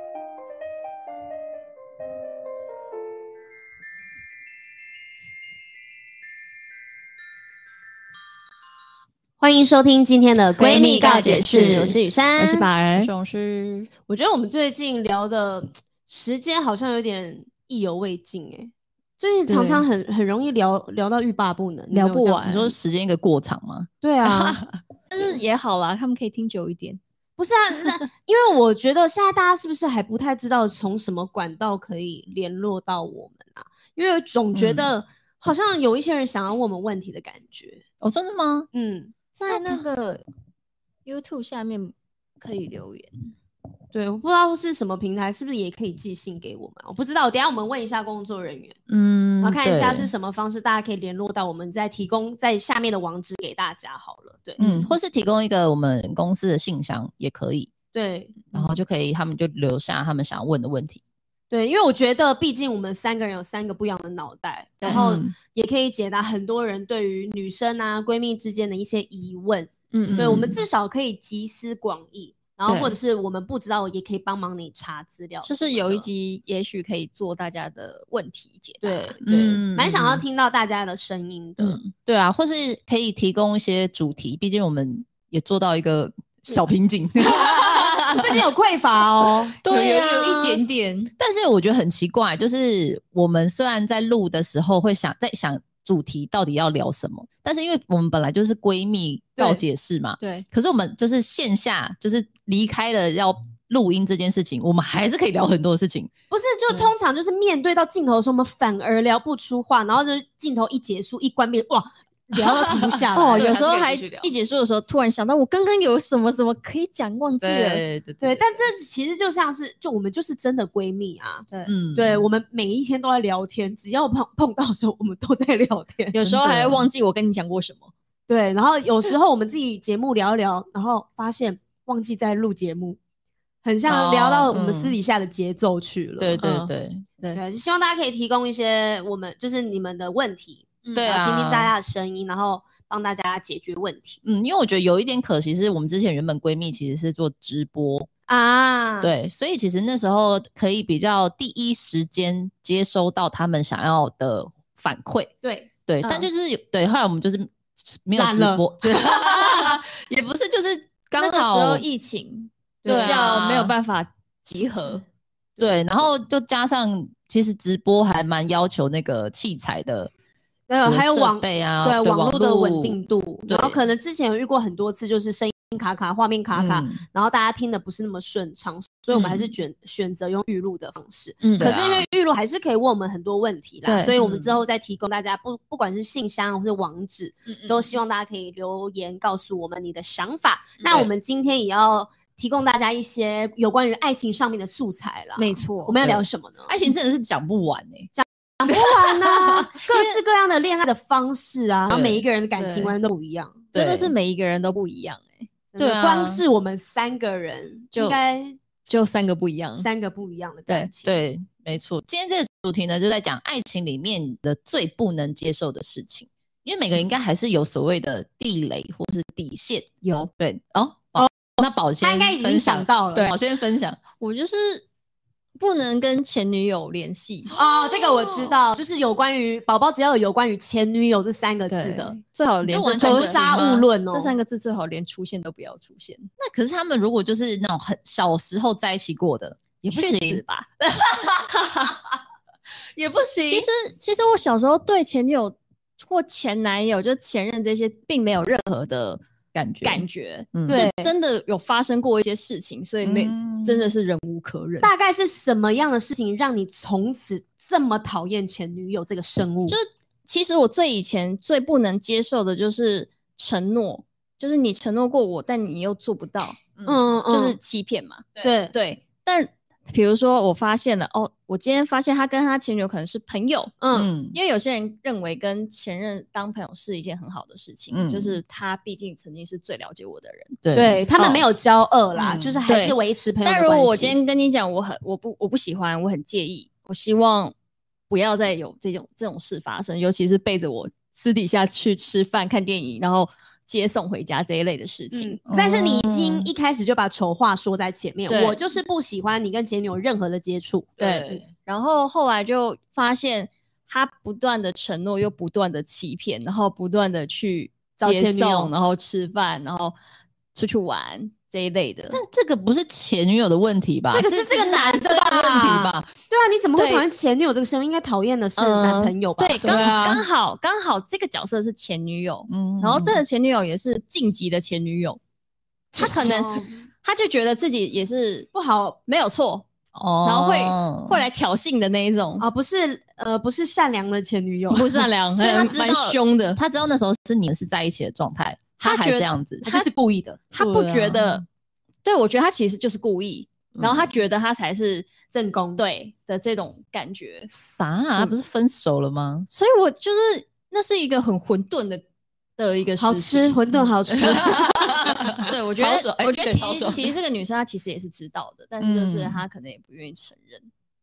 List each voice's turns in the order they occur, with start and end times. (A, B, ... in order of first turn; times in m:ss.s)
0:09.4-0:12.7 A
0:10.6-0:13.1 B
0:11.1-0:11.9 C
0:13.0-0:13.9 C
0:14.1-0:22.7 A
0:19.5-0:19.8 B
0:21.9-0:22.7 B
0:22.5-0:23.9 C
0:24.0-0:24.6 A
0:24.4-0:27.0 B
0:27.4-0:37.8 A
0:34.5-0:34.9 C
0:38.0-0:38.7 C
0:38.7-0:39.1 A
0:39.4-0:40.2 B
0:41.0-0:43.3 B
0:43.9-0:48.8 A
0:48.9-0:50.1 C
0:49.4-0:54.8 A
0:54.6-0:57.7 C
0:57.9-0:58.4 A
0:58.5-1:01.0 C
1:01.5-1:16.1 A
1:04.9-1:05.3 C
1:09.9-1:10.5 B
1:10.1-1:10.6 C
1:12.7-1:13.0 B
1:15.4-1:19.6 B
1:18.8-1:19.2 A
1:19.2-1:20.2 C
1:19.7-1:21.8 A
1:21.6-1:21.9 B
1:22.1-1:28.4 C
1:27.4-1:29.6 A
1:29.6-1:30.6 C
1:29.6-1:31.1 B
1:31.2-1:46.1 C
1:40.2-1:40.4 B
1:46.3-1:53.5 A
1:52.4-1:54.3 C
1:53.2-1:57.8 B
1:57.4-1:58.4 C
1:58.2-2:06.2 A
2:01.7-2:02.3 C
2:06.1-2:07.9 B
2:06.2-2:06.9 C
2:08.3-2:13.0 A
2:13.6-2:16.4 A
2:13.9-2:15.0 C
2:16.2-2:17.1 C
2:16.4-2:17.4 B
2:17.4-2:24.2 A
2:21.0-2:21.7 C
2:24.2-2:28.1 C
2:28.3-2:29.1 A
2:29.0-2:35.3 C
2:35.4-2:36.3 A
2:35.9-2:41.8 C
2:38.2-2:39.8 A
2:41.2-2:45.0 B
2:42.8-2:43.5 A
2:42.9-2:43.7 C
2:45.6-2:50.1 C
2:50.7-3:16.7 A
2:50.8-2:53.0 C
2:53.5-2:53.8 C
2:56.5-2:57.0 C
2:59.1-2:59.5 B
3:01.4-3:01.7 B
3:01.6-3:02.1 C
3:03.9-3:04.5 B
3:07.5-3:07.9 B
3:15.4-3:16.0 B
3:16.0-3:18.1 C
3:18.1-3:23.6 A
3:18.7-3:20.2 C
3:21.9-3:22.2 C
3:22.6-3:22.9 B
3:23.7-3:25.5 B
3:23.7-3:24.1 C
3:25.7-3:28.6 A
3:25.8-3:26.4 C
3:27.9-3:28.2 B
3:28.9-3:29.9 B
3:29.8-3:31.2 A
3:31.0-3:44.0 C
3:40.0-3:40.3 B
3:41.2-3:43.3 A
3:44.2-3:44.9 B
3:45.6-3:47.5 B
3:47.5-3:48.5 C
3:47.5-3:52.2 A
3:51.7-3:56.3 B
3:52.6-3:53.9 C
3:52.9-3:54.3 A
3:56.4-4:00.4 C
3:59.9-4:00.7 B
4:03.1-4:03.4 A
4:03.1-4:03.6 C
4:03.1-4:09.2 B
4:09.6-4:10.9 C
4:09.8-4:14.9 B
4:10.7-4:11.1 A
4:13.0-4:13.9 C
4:14.8-4:19.8 A
4:19.7-4:26.7 B
4:26.9-4:27.6 A
4:27.3-4:33.8 B
4:28.4-4:28.7 A
4:33.8-4:34.1 A
4:33.9-4:34.4 C
4:34.3-4:40.6 B
4:37.9-4:38.4 C
4:40.6-4:41.1 C
4:40.7-4:44.2 A
4:41.2-4:41.4 B
4:42.2-4:42.6 C
4:42.7-4:47.5 B
4:48.1-4:55.4 B
4:55.1-5:01.0 A
4:55.5-4:56.5 C
4:58.3-4:58.6 B
5:01.0-5:01.5 C
5:01.0-5:10.0 B
5:08.0-5:08.7 A
5:10.5-5:12.2 B
5:12.1-5:16.1 C
5:14.1-5:20.2 A
5:16.8-5:17.1 B
5:18.6-5:25.2 B
5:19.6-5:20.0 C
5:22.5-5:23.2 C
5:25.9-5:26.7 A
5:26.0-5:28.5 B
5:28.5-5:29.0 A
5:29.1-5:29.6 B
5:30.0-5:31.2 C
5:30.2-5:32.4 B
5:32.4-5:35.6 A
5:34.7-5:36.6 B
5:35.4-5:39.7 C
5:38.8-5:39.9 B
5:39.6-5:40.4 A
5:40.5-5:41.4 B
5:40.6-5:41.4 C
5:42.0-5:45.1 B
5:43.8-5:44.1 C
5:45.3-5:45.8 A
5:45.8-5:47.5 B
5:47.5-5:49.5 C
5:49.5-5:52.0 B
5:52.6-5:53.6 B
5:53.0-5:55.4 A
5:54.1-5:57.1 C
5:55.4-6:00.7 B
5:58.8-5:59.4 C